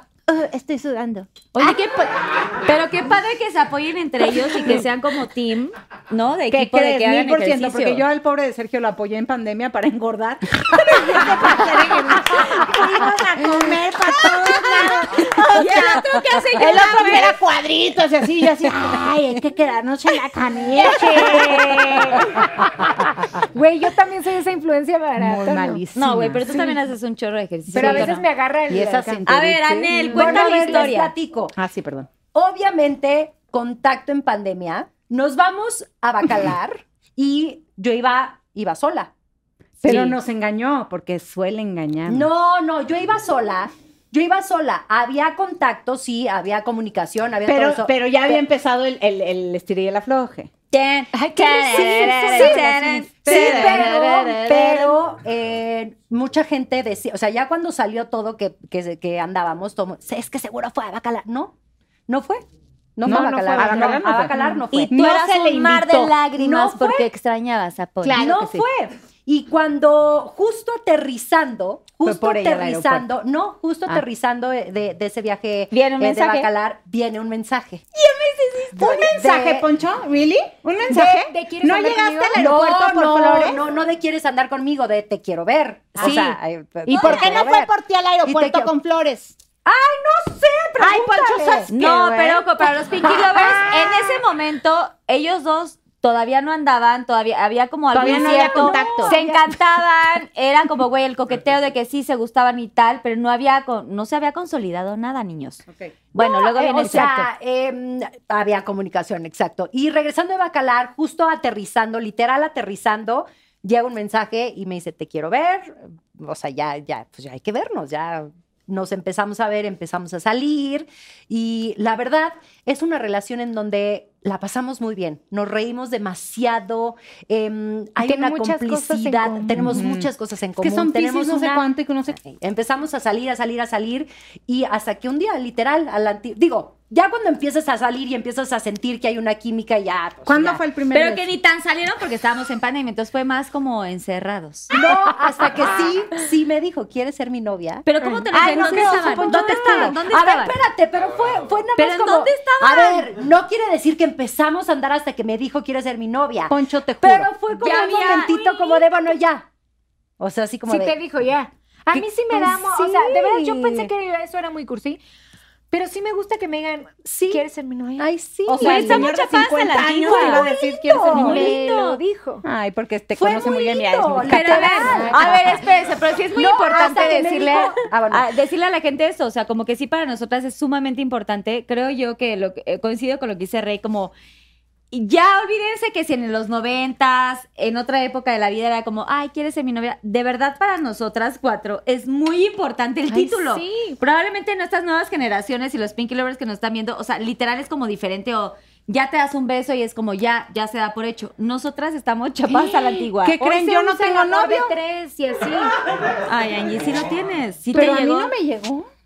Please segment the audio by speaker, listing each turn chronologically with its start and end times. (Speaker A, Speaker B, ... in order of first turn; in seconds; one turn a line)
Speaker A: 0.3-1.5
Speaker B: 1.5-8.0
Speaker A: 6.5-16.0
Speaker C: 12.1-13.7
Speaker B: 14.6-17.4
Speaker A: 16.5-22.5
Speaker D: 22.5-25.8
Speaker A: 25.2-26.7
Speaker B: 25.9-28.2
Speaker A: 27.7-30.0
Speaker D: 27.7-29.2
Speaker B: 29.2-31.1
Speaker D: 29.9-30.7
Speaker C: 30.1-31.5
Speaker A: 31.6-32.1
Speaker C: 32.3-39.1
Speaker C: 39.8-40.2
Speaker A: 39.8-42.3
Speaker C: 42.1-48.4
Speaker A: 47.5-50.5
Speaker B: 50.7-54.3
Speaker D: 51.1-52.6
Speaker C: 51.4-61.5
Speaker A: 53.2-55.0
Speaker C: 62.1-62.4
Speaker C: 63.0-64.9
Speaker A: 63.0-66.1
Speaker D: 63.1-64.6
Speaker B: 64.9-68.4
Speaker C: 66.3-67.1
Speaker A: 68.0-68.6
Speaker C: 68.1-77.8
Speaker A: 72.0-73.1
Speaker B: 75.7-76.5
Speaker B: 78.0-78.9
Speaker A: 78.7-83.6
Speaker C: 78.7-79.7
Speaker D: 80.9-82.4
Speaker C: 82.3-87.7
Speaker A: 86.0-89.3
Speaker B: 86.0-86.3
Speaker B: 86.9-87.5
Speaker C: 88.2-88.7
Speaker C: 89.6-91.7
Speaker A: 90.8-93.7
Speaker B: 91.7-107.1
Speaker A: 97.9-99.1
Speaker C: 98.0-99.5
Speaker D: 98.7-99.0
Speaker A: 105.7-105.9
Speaker C: 106.2-140.6
Speaker D: 106.8-107.3
Speaker D: 128.0-129.6
Speaker A: 129.5-132.2
Speaker A: 140.2-141.3
Speaker B: 140.9-144.7
Speaker C: 144.7-159.5
Speaker B: 147.8-150.6
Speaker A: 148.3-150.0
Speaker B: 151.8-153.1
Speaker A: 156.5-157.3
Speaker B: 157.6-158.8
Speaker C: 160.2-160.9
Speaker D: 160.7-165.0
Speaker C: 161.9-163.9
Speaker D: 165.7-168.1
Speaker C: 167.0-167.4
Speaker C: 168.0-169.1
Speaker A: 168.4-171.4
Speaker B: 168.6-170.5
Speaker C: 170.0-171.6
Speaker D: 171.0-172.4
Speaker B: 171.1-172.0
Speaker A: 172.4-175.3
Speaker C: 173.1-175.6
Speaker B: 174.3-184.1
Speaker D: 174.8-175.5
Speaker C: 176.3-178.3
Speaker B: 184.9-203.3
Speaker D: 193.1-194.0
Speaker D: 202.5-205.7
Speaker A: 203.2-204.8
Speaker B: 206.3-208.3
Speaker A: 207.7-208.9